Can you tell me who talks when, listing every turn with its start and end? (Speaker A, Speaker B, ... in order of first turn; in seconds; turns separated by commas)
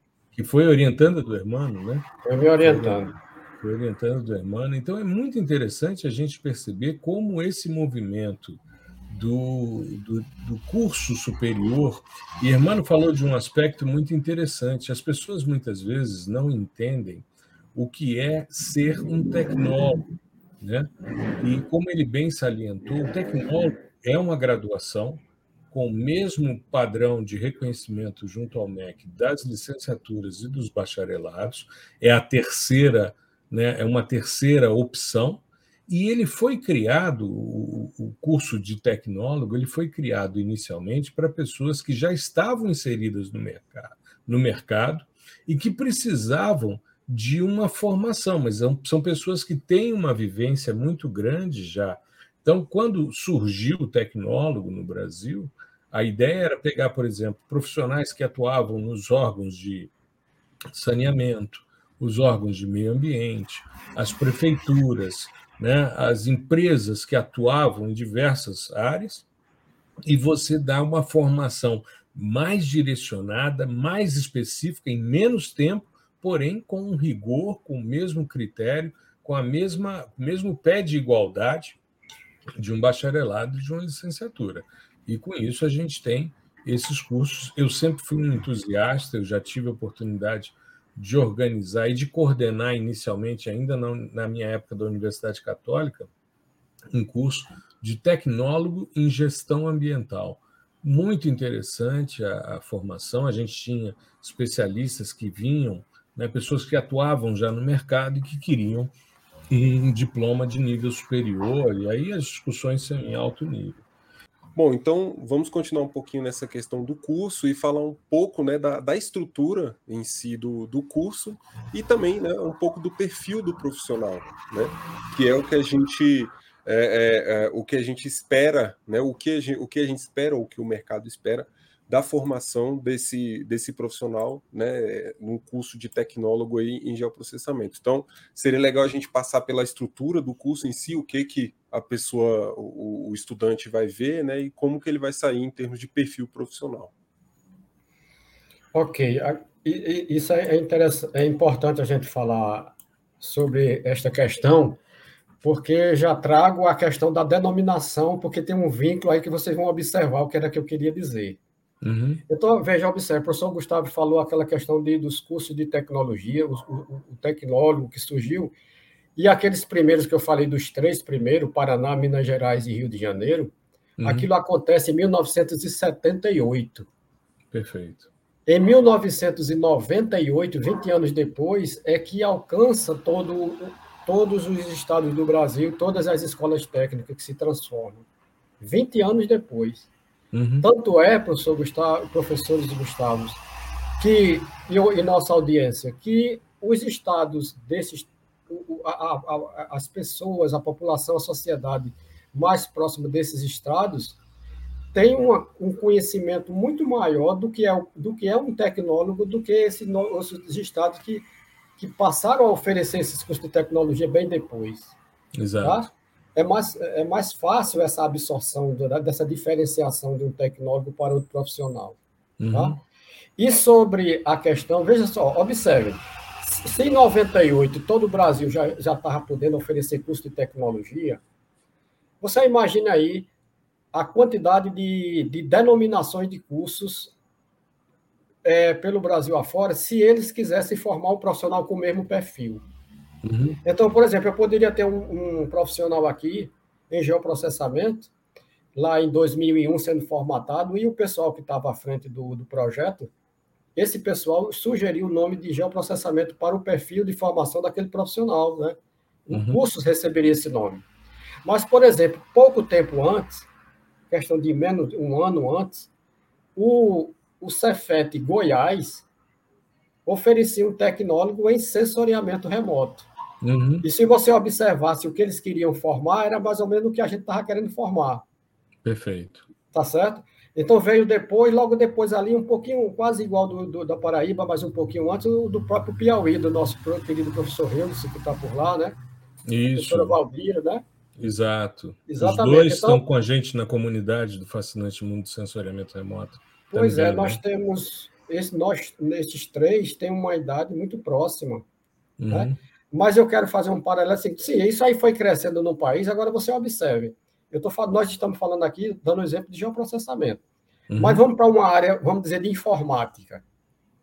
Speaker A: 0.3-2.1, Speaker B: 2.2-3.1, Speaker A: 2.6-3.1, Speaker A: 3.6-20.0, Speaker A: 20.6-20.9, Speaker A: 21.4-59.9, Speaker A: 60.7-69.2, Speaker A: 70.0-81.8, Speaker A: 82.6-96.1, Speaker A: 96.9-108.9, Speaker A: 109.5-113.8, Speaker C: 114.5-146.9, Speaker B: 148.7-154.8, Speaker B: 155.4-161.4, Speaker A: 161.8-162.2, Speaker B: 162.3-168.5, Speaker B: 169.2-173.5, Speaker A: 174.0-174.3, Speaker B: 174.0-176.9, Speaker A: 177.5-178.1, Speaker B: 178.5-188.1, Speaker B: 188.6-189.9, Speaker A: 190.3-190.7, Speaker B: 190.6-193.4, Speaker B: 194.0-204.2, Speaker B: 204.9-211.2, Speaker B: 211.8-214.9, Speaker A: 215.3-215.8, Speaker B: 215.6-222.0, Speaker A: 222.4-222.8, Speaker B: 222.5-222.8, Speaker B: 223.4-231.2, Speaker B: 232.2-233.3, Speaker B: 233.9-237.1, Speaker B: 238.4-242.6, Speaker A: 243.2-243.6, Speaker B: 243.6-248.1, Speaker B: 248.7-253.1, Speaker B: 253.8-260.8, Speaker A: 259.3-259.6, Speaker B: 261.4-263.5, Speaker B: 264.1-265.9, Speaker B: 266.6-269.1, Speaker B: 270.1-273.1, Speaker A: 273.4-273.9, Speaker B: 273.8-278.2, Speaker A: 278.8-279.4, Speaker B: 279.7-289.0, Speaker A: 289.4-290.2, Speaker B: 289.8-290.8, Speaker A: 291.2-297.4, Speaker B: 292.1-293.0, Speaker B: 296.7-301.6, Speaker A: 302.2-302.6, Speaker B: 302.3-310.4, Speaker A: 310.9-311.2, Speaker B: 311.0-313.4